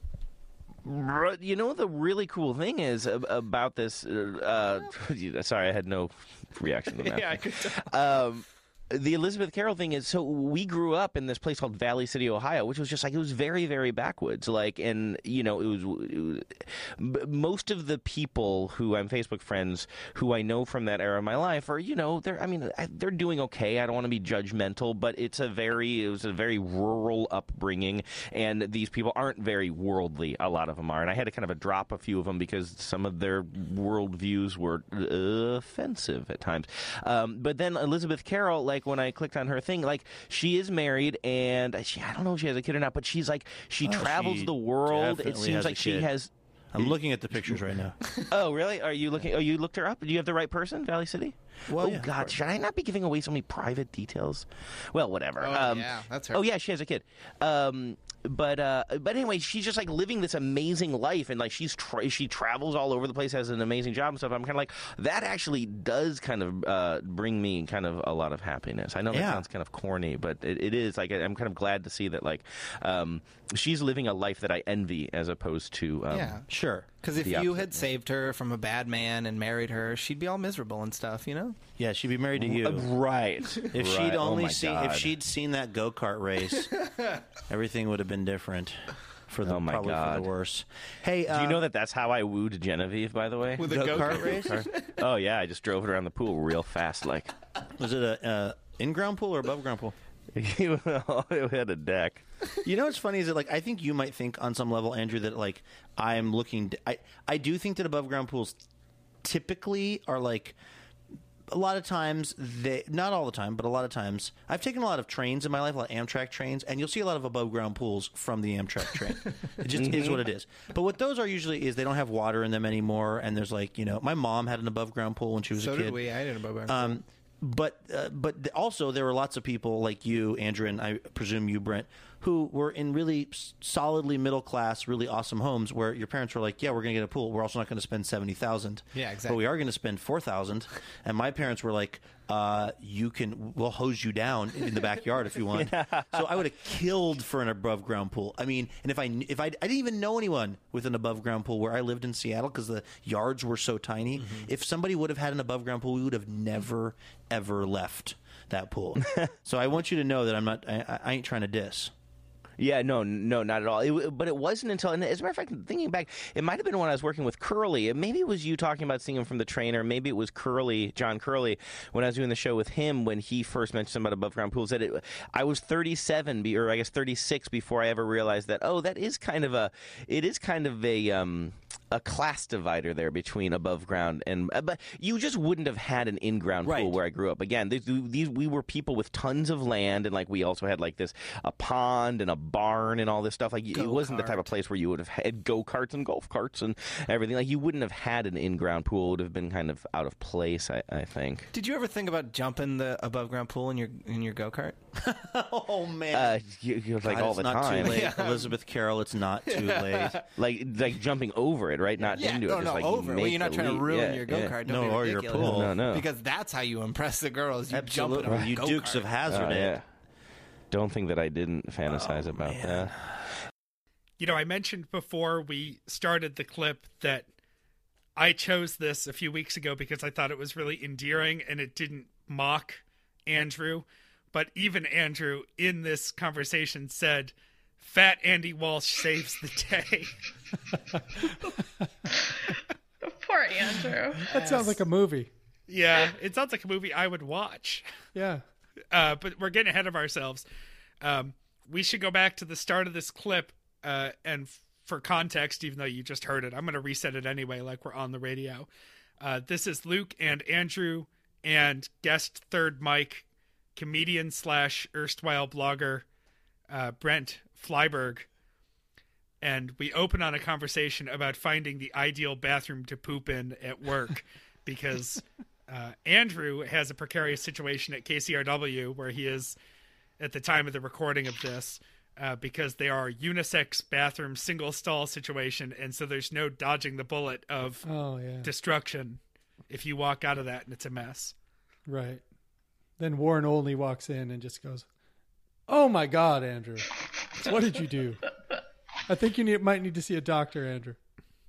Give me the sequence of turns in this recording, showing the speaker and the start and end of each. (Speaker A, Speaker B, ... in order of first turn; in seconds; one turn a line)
Speaker A: 0.8-47.0
Speaker B: 6.9-8.1
Speaker C: 43.8-46.1
Speaker C: 46.7-48.0
Speaker A: 48.3-76.4
Speaker C: 51.7-52.4
Speaker B: 55.4-56.4
Speaker C: 69.1-69.4
Speaker B: 76.1-76.5
Speaker C: 76.5-76.9
Speaker B: 77.0-81.5
Speaker A: 77.2-77.8
Speaker C: 81.8-82.9
Speaker A: 82.3-85.2
Speaker C: 83.7-86.7
Speaker B: 86.7-87.2
Speaker C: 87.5-91.6
Speaker A: 89.4-90.3
Speaker A: 91.3-97.3
Speaker B: 93.6-95.0
Speaker C: 93.6-94.6
Speaker C: 97.7-99.9
Speaker A: 100.3-102.2
Speaker C: 102.6-108.6
Speaker C: 109.2-110.6
Speaker C: 111.5-126.0
Speaker A: 119.7-120.3
Speaker B: 125.5-127.0
Speaker C: 126.7-161.9
Speaker B: 138.9-139.4
Speaker A: 145.5-146.4
Speaker B: 154.2-154.5
Speaker A: 162.6-201.5
Speaker C: 186.6-187.0
Speaker B: 193.7-194.4
Speaker B: 201.5-204.8
Speaker C: 205.0-206.4
Speaker A: 206.1-208.0
Speaker C: 207.0-210.2
Speaker B: 207.8-208.5
Speaker B: 209.5-210.2
Speaker A: 210.3-214.5
Speaker B: 212.0-219.2
Speaker C: 214.6-215.8
Speaker A: 215.3-216.1
Speaker C: 217.7-219.8
Speaker A: 219.2-219.8
Speaker A: 220.7-222.9
Speaker C: 221.8-223.3
Speaker D: 224.2-227.3
Speaker D: 228.2-240.1
Speaker E: 242.1-244.3
Speaker F: 244.2-245.3
Speaker D: 244.3-244.7
Speaker D: 245.7-247.8
Speaker F: 248.1-248.4
Speaker D: 248.9-250.4
Speaker D: 251.0-258.7
Speaker D: 259.2-266.1
Speaker D: 266.7-268.3
Speaker D: 269.4-279.6
Speaker D: 280.2-287.9
Speaker F: 287.8-288.5
Speaker D: 288.4-291.3
Speaker F: 291.9-292.2
Speaker F: 293.0-294.9
Speaker F: 295.7-298.2
Speaker F: 299.1-301.0